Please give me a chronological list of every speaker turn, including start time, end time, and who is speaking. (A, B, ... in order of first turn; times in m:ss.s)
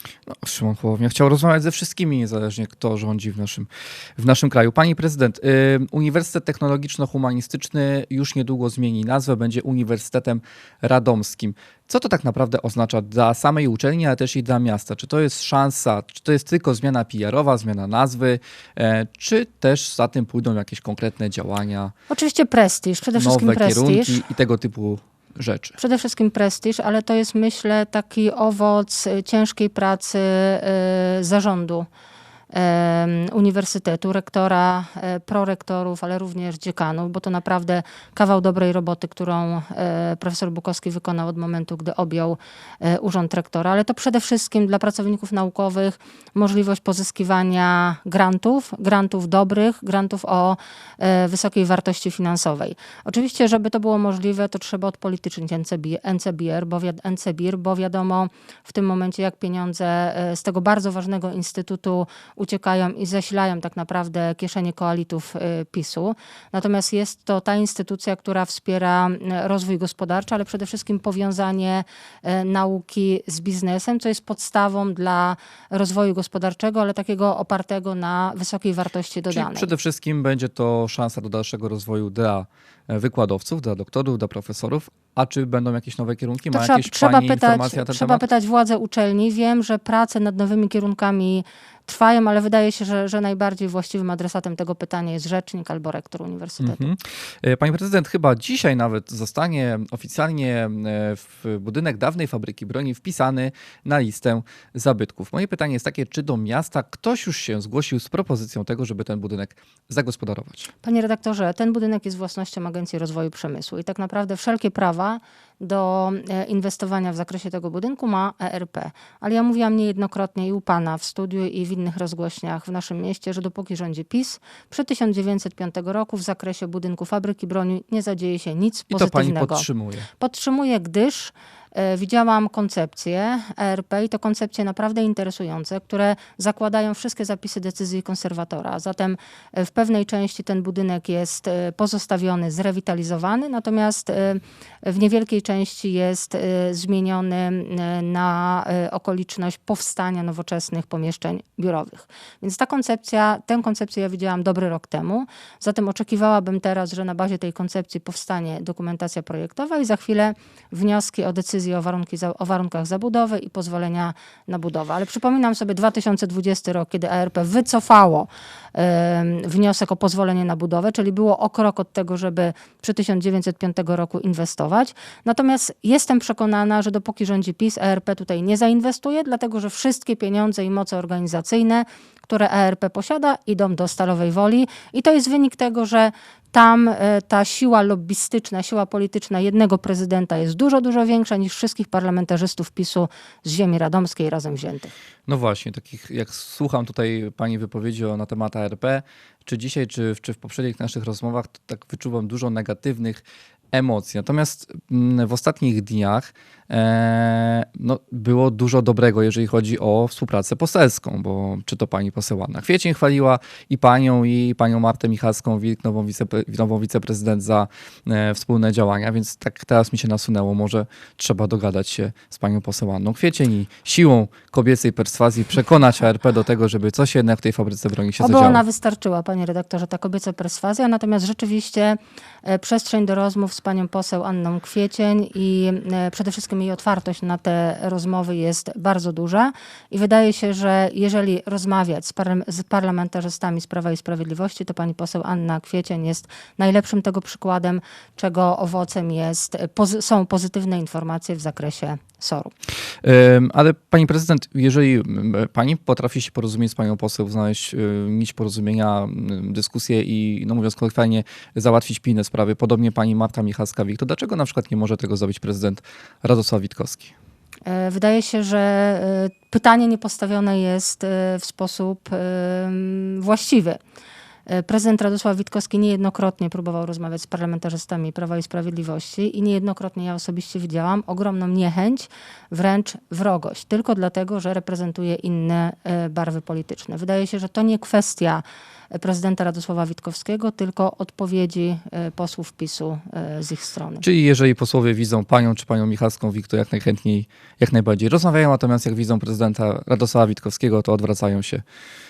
0:00.3-0:21.9 A
0:22.1-0:24.2 B
0:23.2-0:25.8 A
0:25.8-0:31.9 B
0:32.5-1:19.7 B
1:19.3-1:28.2 A
1:26.5-1:36.9 B
1:36.6-1:50.7 A
1:50.8-2:09.7 B
2:08.9-2:10.1 A
2:10.2-3:14.9 B
3:15.3-3:48.6 A
3:48.2-4:12.5 B
4:13.0-4:27.1 A
4:27.6-4:33.8 B
4:34.5-4:54.0 B
4:54.0-5:01.6 A